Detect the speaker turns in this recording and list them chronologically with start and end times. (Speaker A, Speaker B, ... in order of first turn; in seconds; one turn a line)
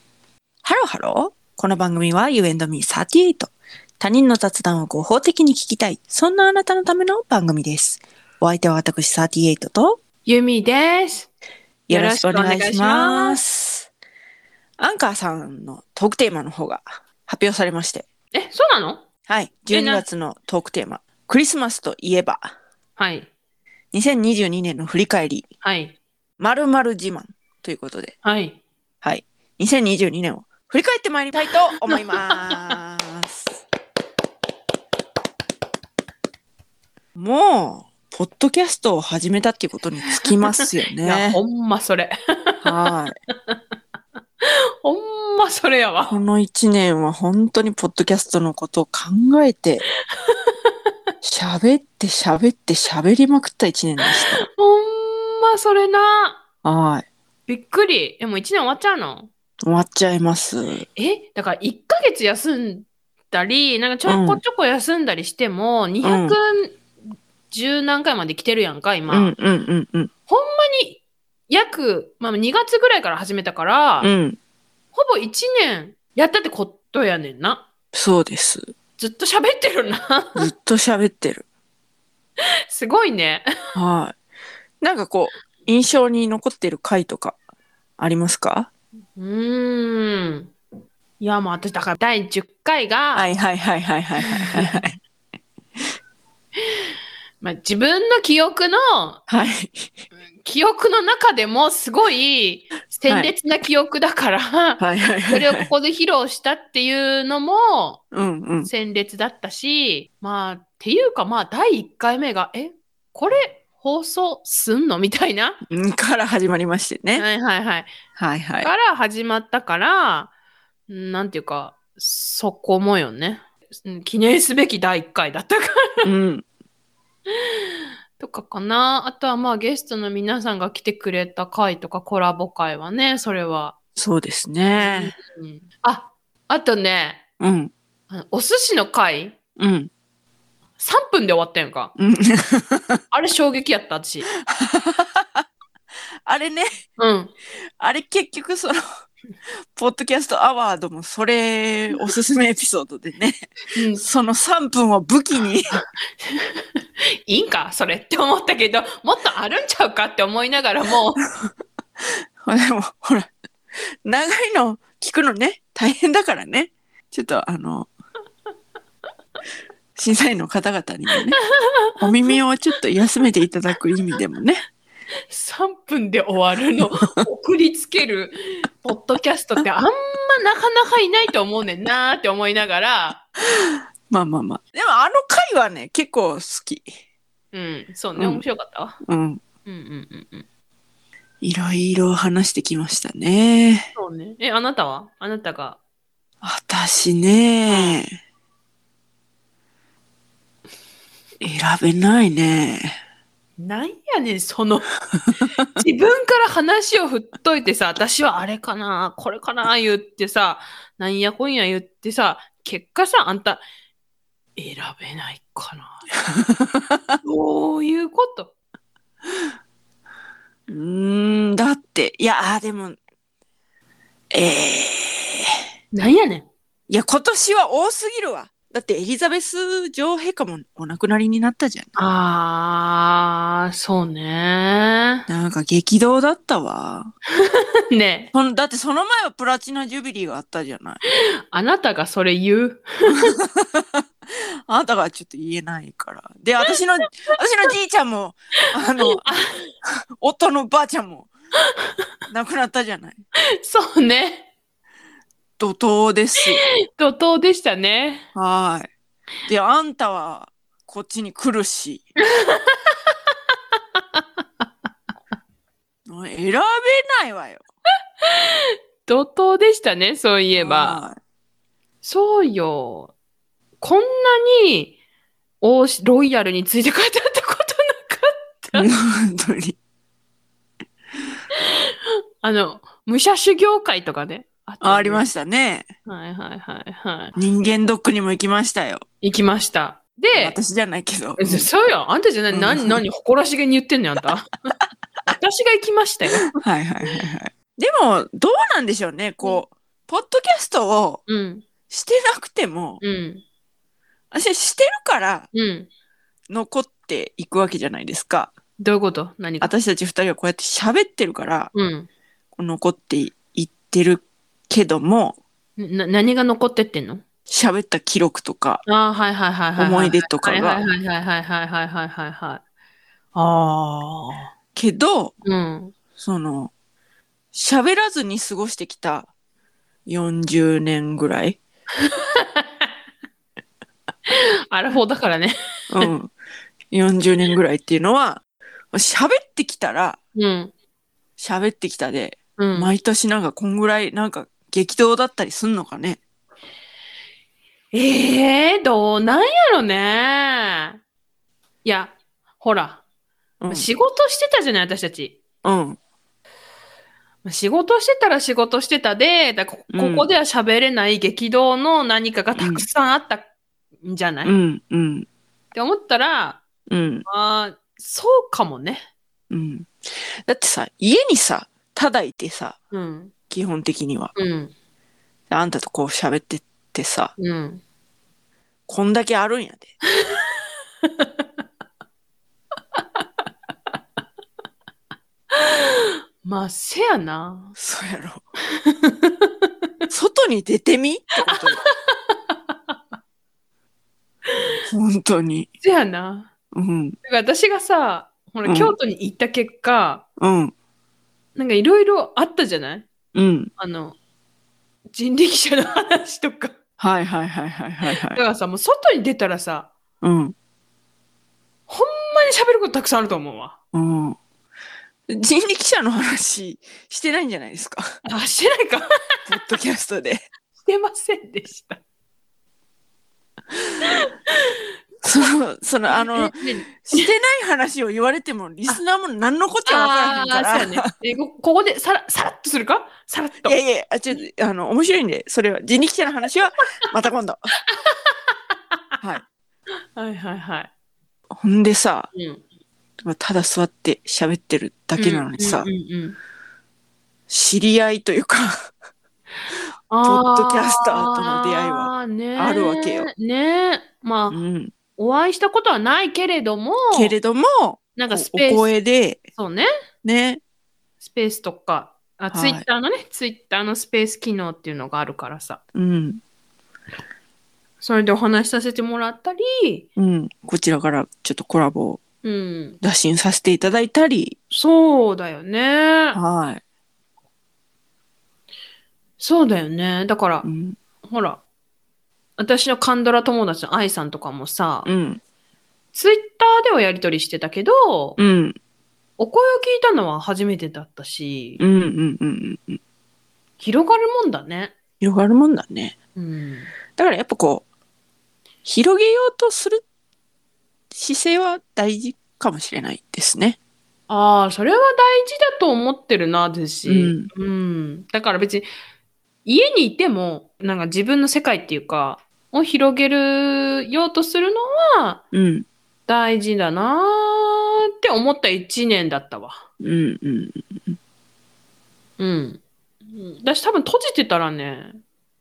Speaker A: 0.6-10.0
Speaker B: 10.3-11.3
Speaker B: 11.9-13.4
Speaker A: 11.9-13.9
Speaker A: 14.8-18.1
Speaker B: 18.3-19.0
Speaker A: 19.3-22.5
Speaker B: 19.7-20.0
Speaker B: 23.0-23.3
Speaker A: 23.9-25.5
Speaker B: 25.6-26.0
Speaker A: 26.4-28.1
Speaker B: 28.2-28.6
Speaker A: 29.0-33.4
Speaker B: 31.9-32.7
Speaker A: 37.2-41.4
Speaker B: 41.0-42.7
Speaker A: 42.6-43.1
Speaker B: 44.4-46.2
Speaker A: 46.1-49.8
Speaker B: 50.1-50.7
Speaker A: 51.2-54.5
Speaker B: 54.1-56.4
Speaker A: 56.6-57.0
Speaker B: 57.5-59.3
Speaker A: 59.6-60.9
Speaker B: 61.0-66.9
Speaker A: 64.1-64.4
Speaker A: 66.0-66.4
Speaker B: 67.5-69.3
Speaker A: 69.1-70.1
Speaker B: 70.3-74.1
Speaker A: 74.0-74.4
Speaker B: 74.9-77.7
Speaker A: 77.9-78.7
Speaker B: 79.0-80.5
Speaker A: 80.4-81.5
Speaker B: 82.7-83.5
Speaker A: 83.8-84.2
Speaker A: 84.8-87.4
Speaker A: 88.0-88.7
Speaker B: 89.2-90.5
Speaker B: 91.2-93.3
Speaker A: 93.1-95.0
Speaker B: 94.3-94.7
Speaker B: 97.4-99.2
Speaker A: 99.3-99.9
Speaker B: 100.4-108.0
Speaker A: 103.1-103.3
Speaker A: 104.8-105.7
Speaker A: 108.1-108.7
Speaker B: 108.7-115.6
Speaker A: 115.7-117.2
Speaker B: 117.2-117.9
Speaker A: 118.2-118.7
Speaker B: 118.6-120.3
Speaker B: 120.9-126.1
Speaker A: 126.0-126.5
Speaker B: 127.4-133.8
Speaker A: 134.0-135.1
Speaker B: 134.8-137.2
Speaker A: 137.4-137.7
Speaker B: 138.1-139.4
Speaker A: 139.6-139.9
Speaker B: 140.8-141.9
Speaker A: 142.0-143.0
Speaker B: 143.1-144.3
Speaker A: 144.4-145.4
Speaker A: 146.3-146.7
Speaker B: 147.0-147.3
Speaker A: 147.8-148.8
Speaker A: 149.8-155.8
Speaker B: 153.8-154.0
Speaker B: 155.8-156.7
Speaker B: 157.3-161.2
Speaker A: 162.4-163.3
Speaker A: 164.1-167.9
Speaker A: 170.0-171.4
Speaker B: 171.6-172.3
Speaker A: 172.0-174.6
Speaker B: 175.3-183.2
Speaker A: 183.6-186.9
Speaker B: 187.5-189.0
Speaker A: 188.2-188.4
Speaker A: 189.1-189.4
Speaker B: 189.7-190.5
Speaker A: 191.4-193.9
Speaker B: 193.9-195.8
Speaker A: 196.4-198.1
Speaker B: 197.7-198.0
Speaker A: 201.4-202.9
Speaker B: 203.6-204.9
Speaker B: 205.8-213.6
Speaker B: 214.6-216.1
Speaker A: 216.3-217.2
Speaker B: 217.2-218.5
Speaker A: 220.7-223.0
Speaker A: 224.3-225.5
Speaker B: 225.9-226.5
Speaker A: 226.9-231.9
Speaker B: 232.0-235.3
Speaker A: 235.3-237.1
Speaker B: 237.4-238.3
Speaker A: 238.3-241.0
Speaker B: 241.1-243.4
Speaker A: 243.4-244.0
Speaker A: 244.7-249.3
Speaker B: 249.1-249.7
Speaker A: 249.8-251.3
Speaker A: 252.3-253.2
Speaker B: 253.6-254.5
Speaker A: 255.6-256.6
Speaker B: 256.9-258.2
Speaker A: 258.4-258.9
Speaker A: 259.5-262.1
Speaker B: 262.4-262.9
Speaker A: 266.1-267.6
Speaker B: 269.1-271.0
Speaker A: 270.6-271.2
Speaker B: 272.0-273.1
Speaker B: 273.8-275.0
Speaker B: 275.6-278.9
Speaker A: 278.7-279.8
Speaker B: 282.4-285.2
Speaker A: 284.8-285.9
Speaker B: 286.1-287.3
Speaker A: 287.4-289.0
Speaker B: 289.2-290.6
Speaker A: 290.4-291.7
Speaker B: 291.4-294.8
Speaker A: 292.5-293.0
Speaker B: 295.3-296.4
Speaker A: 296.5-301.2
Speaker B: 301.3-301.6
Speaker A: 301.9-303.0
Speaker B: 303.0-303.4
Speaker A: 304.3-305.5
Speaker B: 305.5-305.9
Speaker A: 306.5-308.5
Speaker B: 308.8-309.7
Speaker A: 309.6-311.7
Speaker B: 311.7-312.1
Speaker A: 312.6-315.4
Speaker B: 315.8-317.2
Speaker A: 317.5-318.8
Speaker B: 318.9-322.6
Speaker A: 319.8-320.8
Speaker B: 323.4-324.5
Speaker A: 324.8-325.3
Speaker B: 325.4-325.9
Speaker A: 326.2-326.7
Speaker A: 327.5-329.3
Speaker A: 330.1-331.6
Speaker B: 332.0-332.9
Speaker B: 334.3-336.1
Speaker A: 335.9-336.3
Speaker A: 336.9-338.4
Speaker A: 338.9-340.2
Speaker B: 340.4-340.7
Speaker A: 341.4-346.2
Speaker B: 342.6-342.9
Speaker B: 347.9-351.0
Speaker B: 351.8-353.0
Speaker A: 353.6-353.9
Speaker B: 353.7-355.4
Speaker A: 355.6-356.0
Speaker B: 357.4-363.5
Speaker A: 359.9-360.3
Speaker A: 362.6-362.9
Speaker B: 364.0-364.5
Speaker A: 364.4-365.3
Speaker B: 365.7-366.6
Speaker A: 366.9-367.2
Speaker B: 367.3-369.1
Speaker A: 369.5-372.8
Speaker B: 372.9-373.3
Speaker A: 373.5-374.3
Speaker B: 374.4-374.7
Speaker A: 375.5-377.3
Speaker B: 377.4-377.8
Speaker A: 378.9-379.9
Speaker B: 380.1-381.4
Speaker B: 385.5-387.8
Speaker A: 387.8-388.4
Speaker B: 388.8-389.7
Speaker A: 390.1-391.8
Speaker B: 391.5-393.0
Speaker B: 394.5-394.8
Speaker A: 394.9-395.7
Speaker B: 395.8-396.5
Speaker A: 396.7-397.2
Speaker B: 397.2-400.2
Speaker A: 398.6-399.0
Speaker A: 400.4-400.7
Speaker B: 401.6-403.1
Speaker A: 403.3-403.7
Speaker B: 403.8-404.2
Speaker B: 405.1-406.7
Speaker A: 407.0-408.4
Speaker B: 408.1-409.9
Speaker A: 410.2-410.6
Speaker B: 411.9-413.8
Speaker A: 413.9-414.4
Speaker A: 415.3-418.1
Speaker B: 418.2-419.7
Speaker A: 419.5-420.5
Speaker B: 420.8-422.0
Speaker B: 424.0-424.8
Speaker A: 425.2-431.1
Speaker B: 426.1-427.3
Speaker B: 429.9-433.8
Speaker A: 433.6-437.7
Speaker B: 438.0-438.8
Speaker B: 440.2-440.9
Speaker A: 441.5-442.3
Speaker B: 442.3-442.6
Speaker A: 443.2-445.9
Speaker B: 445.2-446.4
Speaker A: 447.5-448.9
Speaker B: 450.1-454.6
Speaker A: 450.2-453.3
Speaker A: 454.5-454.9
Speaker B: 455.2-457.3
Speaker A: 457.1-459.4
Speaker B: 458.2-458.9
Speaker B: 459.6-459.9
Speaker A: 460.2-460.6
Speaker B: 461.2-465.8
Speaker A: 462.5-462.9
Speaker A: 465.9-466.4
Speaker B: 468.0-470.1
Speaker A: 470.2-472.2
Speaker B: 472.4-473.0
Speaker A: 473.0-474.6
Speaker B: 474.7-476.4
Speaker A: 476.3-476.8
Speaker B: 479.4-480.7
Speaker A: 480.6-481.0
Speaker B: 481.2-481.6
Speaker B: 482.6-485.1
Speaker A: 485.1-485.4
Speaker B: 486.1-488.4
Speaker A: 488.4-488.8
Speaker B: 489.4-491.8
Speaker A: 491.8-493.0
Speaker B: 493.8-494.9
Speaker A: 495.2-496.1
Speaker B: 496.4-496.9
Speaker A: 497.2-497.8
Speaker A: 498.8-500.0
Speaker A: 501.1-503.8
Speaker B: 504.3-508.9
Speaker A: 507.1-507.5
Speaker B: 509.6-515.4
Speaker A: 515.5-515.9
Speaker B: 516.3-519.8
Speaker A: 520.0-521.2
Speaker B: 522.4-525.2